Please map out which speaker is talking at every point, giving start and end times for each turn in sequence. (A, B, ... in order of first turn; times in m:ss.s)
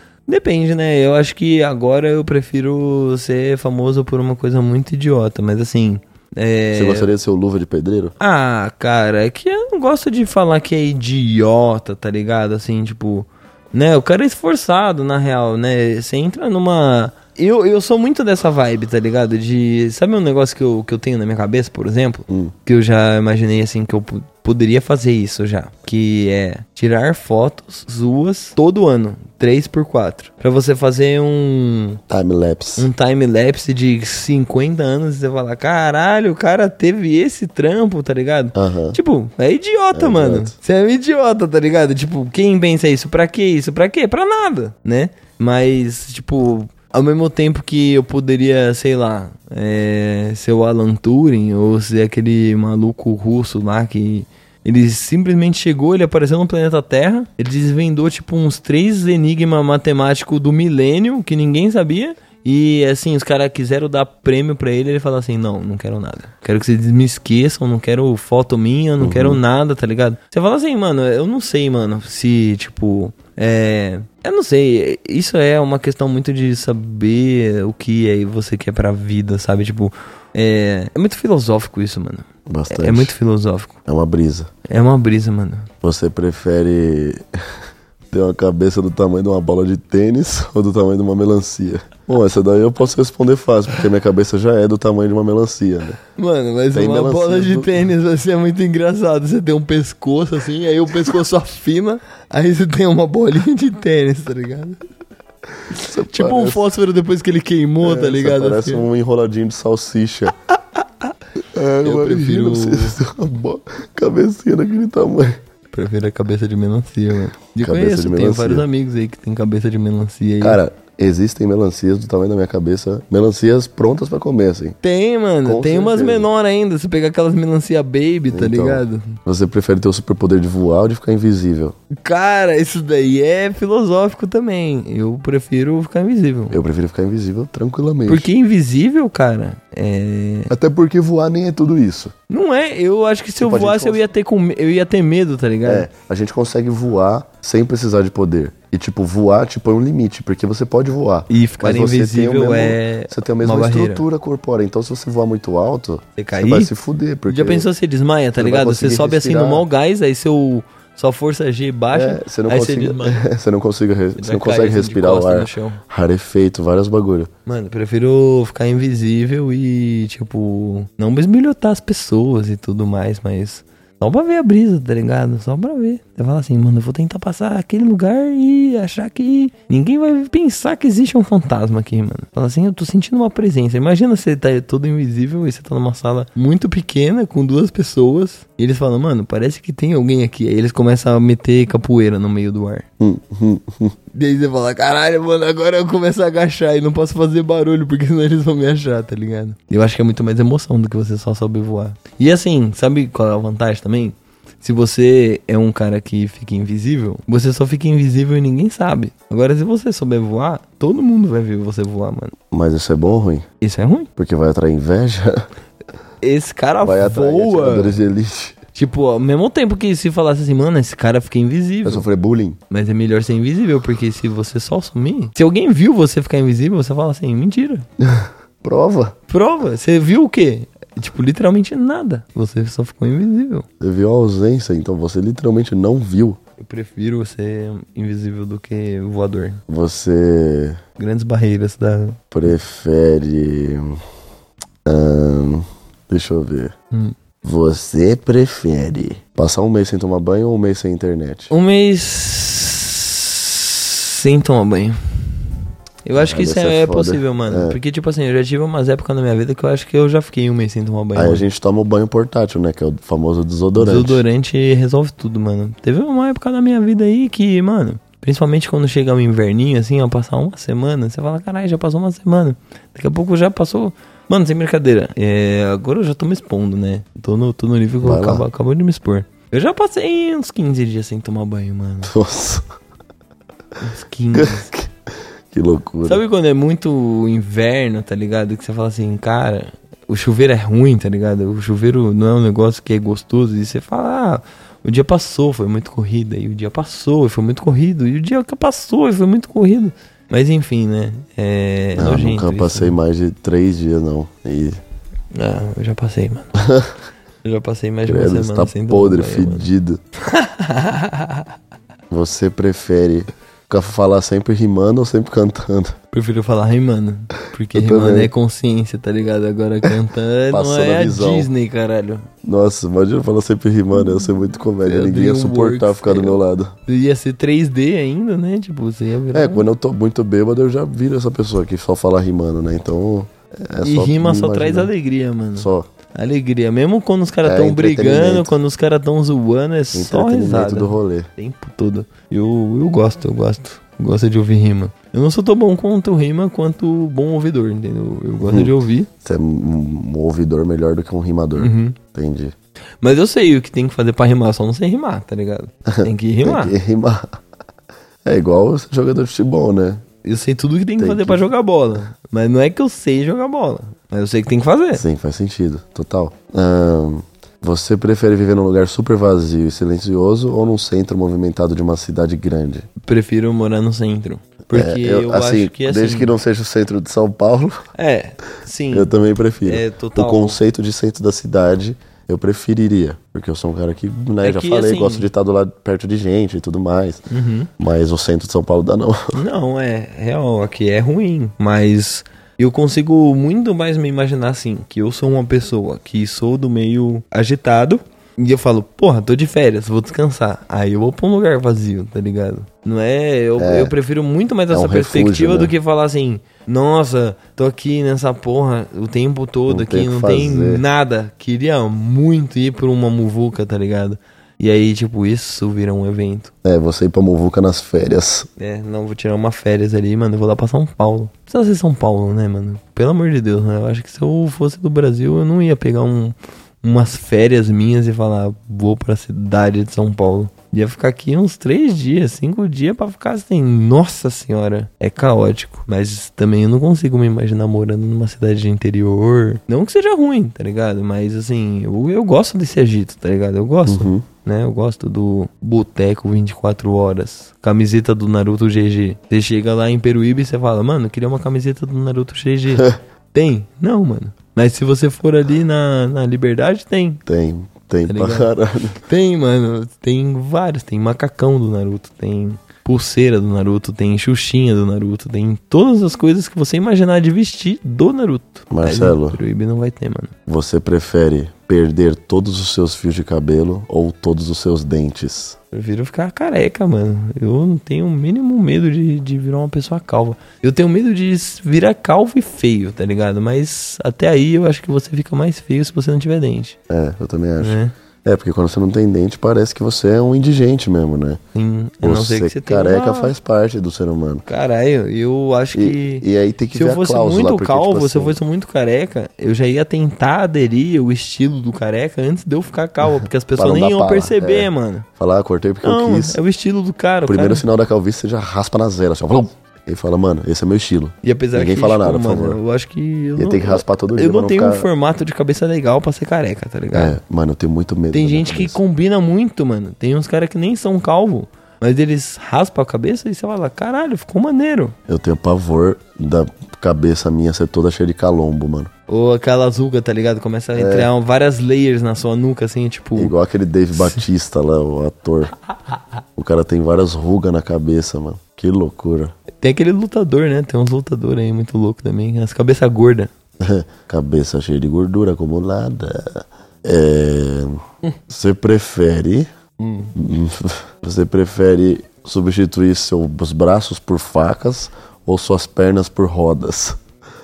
0:00.3-0:07.1 A
0:06.7-0:08.2 B
0:08.2-0:32.0 A
0:22.3-0:22.5 B
0:32.1-0:32.9 B
0:32.8-1:23.8 A
0:38.6-0:39.0 B
0:39.9-0:40.5 B
1:09.0-1:09.4 B
1:22.5-1:23.1 B
1:23.9-1:24.5 B
1:24.7-1:25.7 A
1:25.8-1:27.2 B
1:28.1-1:36.0 B
1:36.2-1:44.8 A
1:36.7-1:37.8 B
1:45.7-1:46.7 B
1:46.1-1:48.9 A
1:47.8-1:50.4 B
1:51.5-1:55.4 B
1:51.8-1:53.0 A
1:55.7-2:00.6 A
1:57.6-1:58.7 B
2:00.4-2:04.8 B
2:04.8-2:09.2 A
2:05.4-2:06.3 B
2:08.3-2:11.8 B
2:12.0-2:16.6 A
2:16.5-2:18.3 B
2:18.1-2:20.5 A
2:20.5-2:22.1 B
2:22.3-2:25.9 A
2:23.4-2:24.1 B
2:25.6-2:37.7 B
2:31.3-2:34.0 A
2:36.2-2:36.7 A
2:37.3-2:43.3 A
2:38.4-2:39.6 B
2:41.9-2:47.3 B
2:44.2-2:45.8 A
2:47.5-3:12.9 A
3:13.0-3:14.0 B
3:14.1-3:32.4 A
3:32.5-3:33.4 B
3:33.6-3:34.1 A
3:34.2-3:35.5 B
3:36.2-3:38.0 A
3:36.8-3:38.6 B
3:38.8-3:42.1 A
3:41.8-3:42.6 B
3:42.7-3:47.8 A
3:48.0-3:49.2 B
3:49.3-3:53.7 A
3:53.8-3:56.4 B
3:56.6-3:59.6 A
3:59.7-4:00.8 B
4:01.0-4:02.2 A
4:02.3-4:04.0 B
4:04.8-4:06.7 B
4:07.4-4:11.5 B
4:11.5-4:15.2 A
4:16.0-4:21.4 A
4:16.2-4:17.8 B
4:21.2-4:24.2 B
4:23.8-4:42.1 A
4:38.0-4:38.5 B
4:42.1-4:42.7 B
4:43.8-4:44.7 A
4:44.3-4:44.9 B
4:45.5-4:46.2 B
4:46.0-5:03.0 A
5:02.0-5:04.8 B
5:05.3-5:06.6 A
5:06.6-5:06.9 B
5:07.4-5:09.7 A
5:08.1-5:10.0 B
5:10.2-5:11.5 A
5:12.1-5:16.0 B
5:16.1-5:22.3 A
5:17.8-5:18.3 B
5:20.5-5:21.5 B
5:22.4-5:26.8 B
5:24.8-5:29.7 A
5:29.3-5:34.9 B
5:33.8-5:49.1 A
5:35.6-5:35.9 B
5:37.4-5:38.6 B
5:39.9-5:41.3 B
5:48.4-5:52.6 B
5:51.6-5:52.0 A
5:53.0-5:56.7 A
5:55.9-5:57.4 B
5:58.2-6:00.0 B
6:00.2-6:05.0 A
6:01.0-6:01.5 B
6:04.9-6:12.9 B
6:13.0-6:16.3 A
6:14.7-6:17.8 B
6:18.0-6:20.6 A
6:18.9-6:27.2 B
6:24.4-6:25.3 A
6:27.3-6:27.7 A
6:27.8-6:29.4 B
6:29.3-6:56.5 A
6:43.6-6:43.9 B
6:44.7-6:45.7 B
6:49.7-6:50.8 B
6:56.6-6:58.5 B
6:58.6-7:37.2 A
7:23.9-7:24.2 B
7:37.3-7:39.0 B
7:38.1-7:50.3 A
7:48.7-7:49.4 B
7:50.5-7:55.6 B
7:55.7-8:06.8 A
8:06.9-8:11.4 B
8:07.6-8:07.9 A
8:11.6-8:13.3 A
8:12.0-8:14.4 B
8:14.5-8:25.1 A
8:15.7-8:18.4 B
8:23.6-8:26.4 B
8:25.8-8:27.6 A
8:27.3-8:32.6 B
8:31.2-8:37.2 A
8:33.4-8:34.9 B
8:36.9-8:38.8 B
8:38.1-8:45.0 A
8:45.1-8:48.9 B
8:49.1-8:53.4 A
8:50.8-8:51.1 B
8:53.2-8:55.6 B
8:56.4-8:59.3 B
8:59.6-9:03.3 A
9:03.6-9:09.5 B
9:09.8-9:10.1 A
9:10.1-9:17.0 B